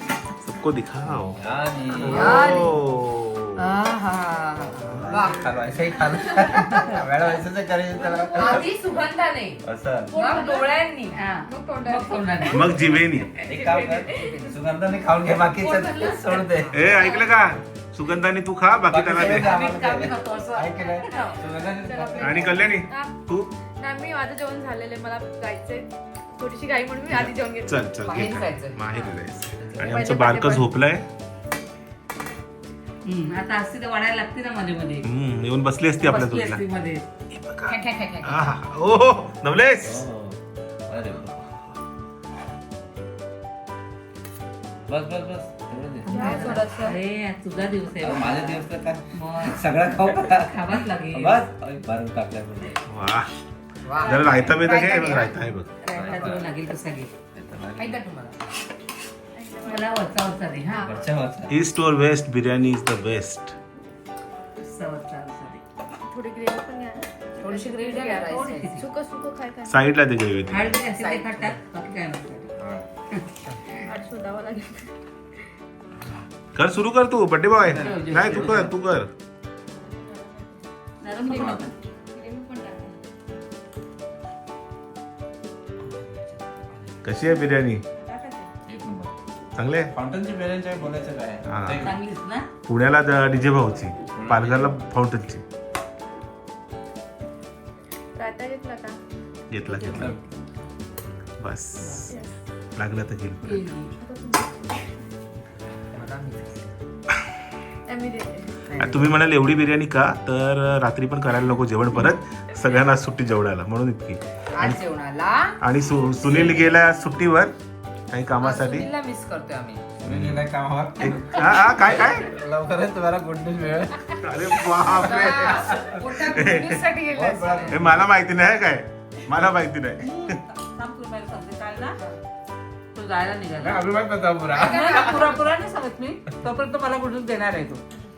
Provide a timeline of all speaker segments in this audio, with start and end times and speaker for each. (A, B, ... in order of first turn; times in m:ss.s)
0:00.4-0:01.4 A
0:01.1-0:02.6 B
0:01.9-0:03.8 A
0:01.9-0:02.7 C
0:03.6-0:05.5 C
0:04.7-0:08.7 B
0:08.3-0:12.5 C
0:09.6-0:10.1 B
0:10.1-0:10.4 D
0:11.1-0:12.8 E
0:12.5-0:13.3 A
0:13.4-0:16.9 B
0:13.6-0:14.4 C
0:15.6-0:16.4 C
0:16.7-0:19.6 A
0:18.9-0:22.7 B
0:19.1-0:21.4 E
0:21.8-0:23.1 D
0:22.2-0:23.5 A
0:23.8-0:27.8 D
0:27.1-0:31.0 A
0:28.0-0:28.8 C
0:29.7-0:30.7 C
0:33.0-0:35.1 E
0:35.0-0:36.6 A
0:36.0-0:37.0 E
0:37.3-0:40.0 A
0:37.7-0:38.5 C
0:39.8-0:40.4 B
0:40.9-0:41.4 B
0:44.9-0:46.7 B
0:46.0-0:51.5 E
0:46.1-0:46.7 C
0:46.5-0:46.9 D
0:48.0-0:52.8 B
0:52.9-0:53.3 A
0:53.8-0:55.5 C
0:54.0-0:54.9 E
0:54.0-0:55.7 A
0:55.8-0:57.1 E
0:55.9-0:56.5 B
0:57.4-0:58.0 B
0:57.8-0:58.3 C
0:59.4-0:59.8 D
0:59.6-1:01.0 E
1:00.8-1:01.5 B
1:01.5-1:03.5 A
1:04.6-1:05.6 E
1:06.1-1:07.7 D
1:07.4-1:08.8 C
1:07.8-1:08.9 E
1:08.8-1:09.7 D
1:09.7-1:10.7 A
1:10.5-1:12.5 E
1:10.9-1:11.6 C
1:12.6-1:12.8 B
1:13.9-1:14.9 D
1:16.6-1:19.1 A
1:17.6-1:18.6 B
1:17.8-1:18.7 E
1:21.0-1:21.7 E
1:21.2-1:21.6 B
1:22.1-1:22.9 D
1:27.0-1:27.8 A
1:28.6-1:29.1 B
1:29.6-1:29.9 A
1:29.9-1:32.0 B
1:31.5-1:31.9 A
1:31.8-1:32.5 E
1:32.6-1:35.4 A
1:34.1-1:34.8 B
1:38.2-1:39.0 D
1:39.5-1:40.1 A
1:39.8-1:40.2 B
1:41.4-1:42.1 A
1:42.8-1:43.6 A
1:43.4-1:43.9 E
1:44.1-1:44.5 D
1:45.9-1:46.7 C
1:47.9-1:48.4 D
1:48.8-1:54.8 A
1:54.6-1:55.6 C
1:55.6-1:57.5 A
1:56.2-1:56.7 B
1:58.1-1:58.9 A
1:58.4-1:59.8 C
2:00.0-2:00.4 A
2:00.0-2:06.0 B
2:01.0-2:02.3 A
2:04.2-2:06.8 A
2:04.9-2:07.8 C
2:07.1-2:08.1 B
2:07.7-2:10.4 A
2:10.0-2:12.0 E
2:12.9-2:13.9 E
2:13.6-2:14.8 B
2:14.5-2:15.4 C
2:14.6-2:17.8 E